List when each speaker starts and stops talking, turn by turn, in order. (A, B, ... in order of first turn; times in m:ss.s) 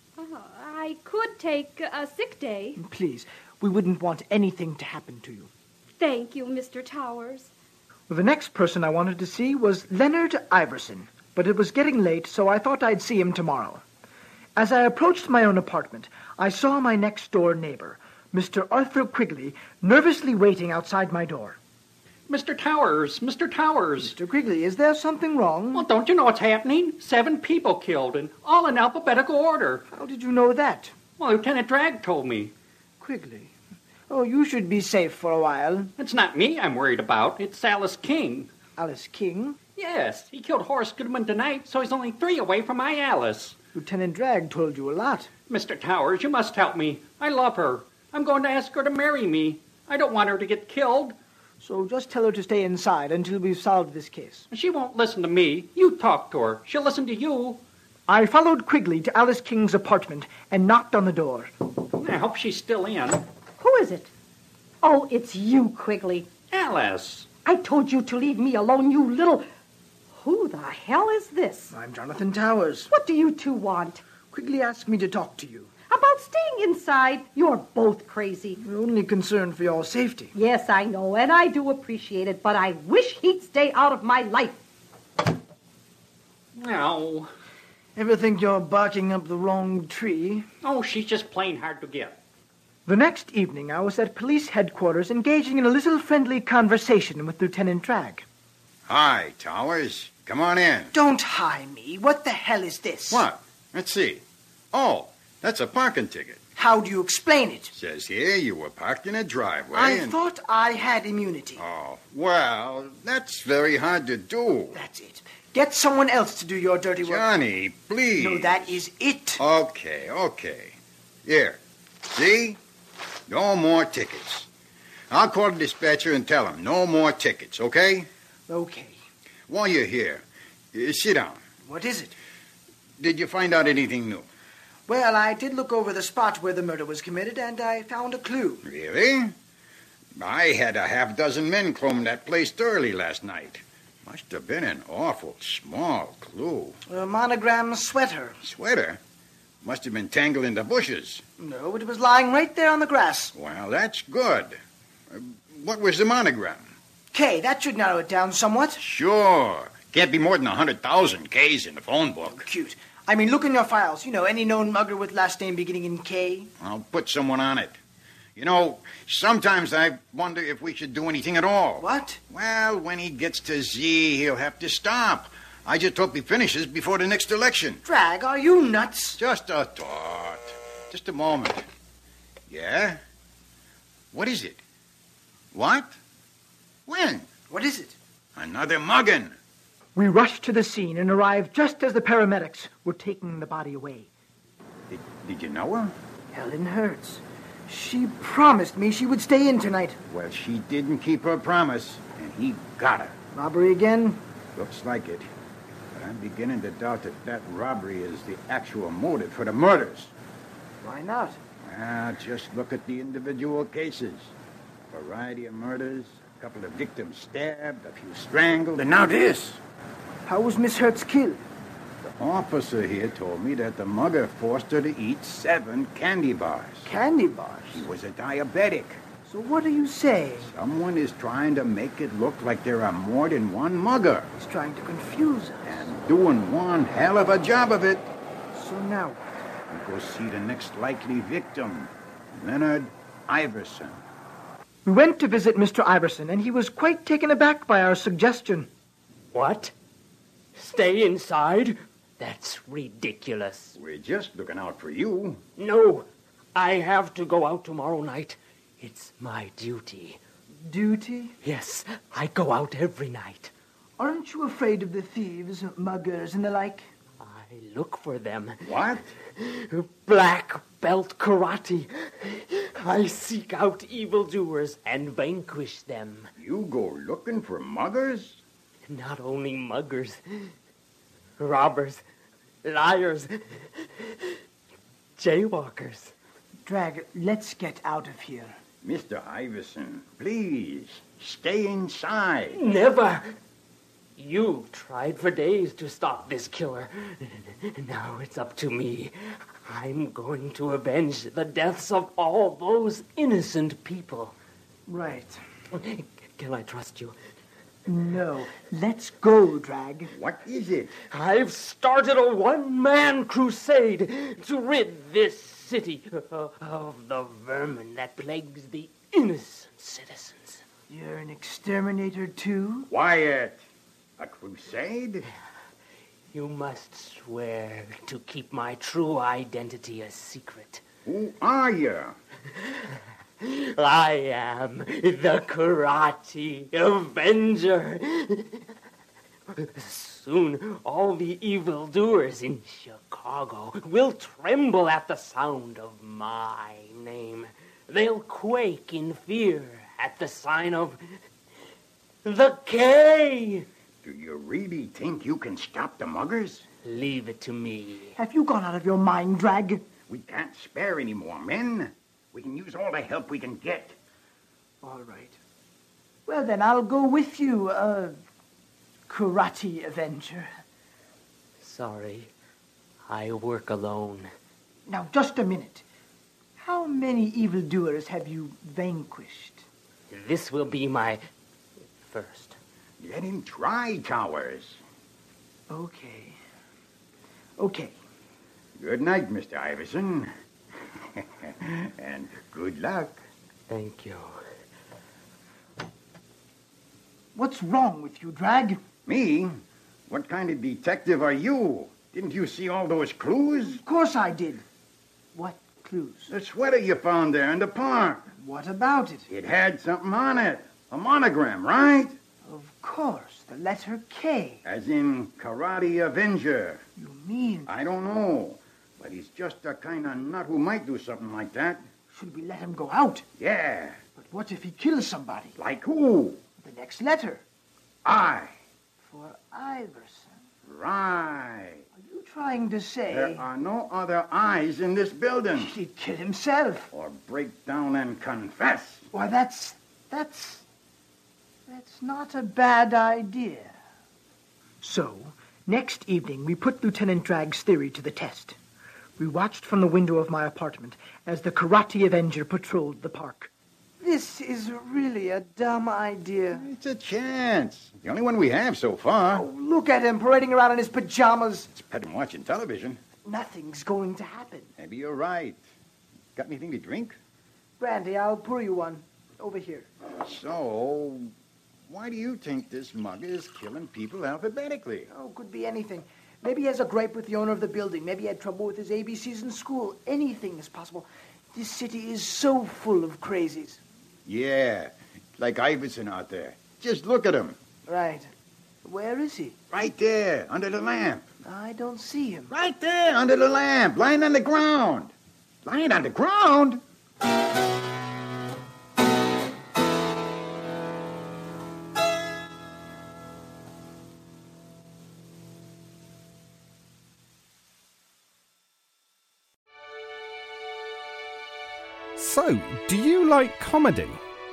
0:00.2-0:02.8 A
0:02.8-0:05.5 B
0:06.0-0:07.5 A
0:08.1-0:13.8 B
0:14.6-0:21.6 B
0:22.3-0:24.1 C
0:24.0-0:25.8 B
0:25.7-0:29.8 C
0:29.9-0:30.9 B
0:31.2-0:32.5 C
0:33.0-0:33.5 B
0:34.1-0:35.9 B
0:36.0-0:38.5 C
0:38.8-0:39.6 B
0:39.8-0:43.6 C
0:43.7-0:45.3 B
0:45.5-0:51.1 C
0:51.6-0:54.4 B
0:54.5-0:57.6 C
0:58.1-1:01.5 B
1:01.9-1:03.2 C
1:03.6-1:04.1 D
1:04.8-1:06.3 D
1:06.5-1:07.3 C
1:07.4-1:09.4 D
1:10.2-1:11.7 D
1:11.7-1:12.9 B
1:12.9-1:14.0 D
1:14.3-1:15.7 B
1:15.9-1:18.6 D
1:18.6-1:20.3 B
1:20.3-1:24.5 D
1:26.6-1:27.3 C
1:28.0-1:30.4 B
1:30.6-1:32.2 C
1:32.8-1:38.2 B
1:38.9-1:40.9 E
1:40.9-1:43.3 B
1:43.1-1:46.4 E
1:46.6-1:47.7 B
1:47.7-1:50.2 E
1:49.7-1:51.6 B
1:51.6-1:54.8 E
1:54.7-1:57.3 B
1:57.0-1:58.8 E
1:58.2-1:59.4 B
1:59.4-2:01.6 E
2:02.1-2:02.6 E
2:03.3-2:04.5 E
2:05.1-2:08.1 E
2:08.5-2:09.0 B
2:09.5-2:11.4 E
2:11.6-2:12.1 B
2:13.0-2:14.2 E
2:14.9-2:18.6 B
2:18.6-2:19.3 E
2:20.2-2:26.8 E
2:26.9-2:28.4 B
2:28.4-2:29.0 E
2:29.6-2:31.2 E
2:31.4-2:33.3 B
2:33.3-2:34.6 E
2:35.1-2:36.7 E
2:37.1-2:38.8 B
2:38.8-2:42.5 E
2:42.3-2:46.5 B
2:46.6-2:47.8 E
2:48.4-2:57.8 E
2:51.8-2:52.2 B
2:57.8-2:59.2 B
2:59.2-3:01.6 E
3:02.5-3:03.0 E
3:04.1-3:04.6 E
3:05.5-3:05.9 E
3:06.9-3:07.3 E
3:07.5-3:08.0 B
3:08.4-3:09.4 E
3:09.9-3:14.1 B
3:14.9-3:15.9 E
3:16.3-3:20.0 B
3:20.1-3:23.1 E
3:23.3-3:24.2 B
3:24.6-3:25.3 E
3:25.9-3:30.1 E
3:30.8-3:31.4 B
3:31.6-3:34.3 E
3:34.9-3:39.6 E
3:40.2-3:41.4 B
3:42.0-3:46.9 E
3:46.8-3:47.8 B
3:47.7-3:49.0 E
3:49.2-3:50.5 B
3:50.4-3:54.3 E
3:54.3-3:55.9 B
3:55.6-3:58.1 E
3:58.5-3:59.4 B
3:59.7-4:04.0 E
4:04.8-4:08.7 B
4:09.3-4:09.7 F
4:10.6-4:13.7 F
4:13.8-4:15.4 E
4:15.6-4:20.2 F
4:20.6-4:21.4 B
4:21.4-4:23.5 F
4:24.0-4:26.8 B
4:27.2-4:28.8 F
4:28.6-4:29.1 E
4:29.4-4:36.3 F
4:36.4-4:38.4 E
4:38.9-4:40.5 F
4:41.4-4:42.0 F
4:42.6-4:43.4 F
4:45.2-4:46.1 F
4:46.6-4:48.5 B
4:48.8-4:52.6 E
4:52.5-4:53.2 F
4:54.2-4:59.1 F
4:59.6-5:04.3 F
5:04.9-5:05.4 B
5:05.8-5:07.1 F
5:07.8-5:10.1 B
5:10.1-5:10.9 E
5:11.1-5:20.6 F
5:20.9-5:22.9 B
5:22.9-5:23.6 E
5:24.2-5:25.3 E
5:26.3-5:30.8 F
5:31.0-5:32.1 E
5:33.4-5:38.6 F
5:39.6-5:51.0 F
5:52.2-5:53.6 F
5:54.0-5:56.6 E
5:56.8-5:58.2 F
5:58.2-5:59.8 B
6:00.1-6:04.0 E
6:04.8-6:05.4 B
6:06.2-6:08.1 B
6:09.1-6:10.5 B
6:11.6-6:12.3 F
6:13.1-6:14.3 F
6:14.9-6:15.8 B
6:16.6-6:19.6 B
6:20.1-6:21.2 F
6:22.0-6:22.6 F
6:23.0-6:24.8 E
6:25.7-6:26.4 B
6:27.6-6:27.9 B
6:28.8-6:30.3 E
6:31.1-6:33.2 E
6:33.7-6:34.3 F
6:37.3-6:38.8 B
6:39.0-6:43.8 E
6:43.7-6:44.6 B
6:45.3-6:46.3 B
6:46.3-6:48.3 E
6:48.3-6:49.3 B
6:49.3-6:52.2 E
6:52.4-6:54.6 B
6:54.6-6:56.8 E
6:57.0-6:57.7 B
6:57.7-7:01.8 E
7:02.1-7:03.2 B
7:03.4-7:04.0 E
7:04.2-7:05.6 B
7:05.6-7:06.4 E
7:06.6-7:07.4 B
7:08.0-7:08.5 E
7:09.0-7:10.3 B
7:10.6-7:11.8 E
7:11.9-7:13.4 B
7:13.1-7:15.7 E
7:15.6-7:16.9 B
7:16.9-7:19.1 E
7:19.1-7:20.6 B
7:21.7-7:23.7 B
7:24.8-7:28.6 B
7:29.2-7:36.6 B
7:36.5-7:39.4 E
7:39.3-7:41.7 B
7:41.7-7:43.0 E
7:43.2-7:44.7 B
7:44.8-7:45.6 E
7:46.4-7:47.2 E
7:47.8-7:49.9 B
7:50.1-7:51.3 E
7:51.9-7:55.1 E
7:55.1-8:03.8 B
8:04.2-8:07.6 E
8:07.9-8:08.3 B
8:08.8-8:09.6 B
8:09.7-8:11.2 E
8:11.4-8:12.5 B
8:12.5-8:15.1 E
8:15.6-8:16.8 E
8:32.2-8:34.2 G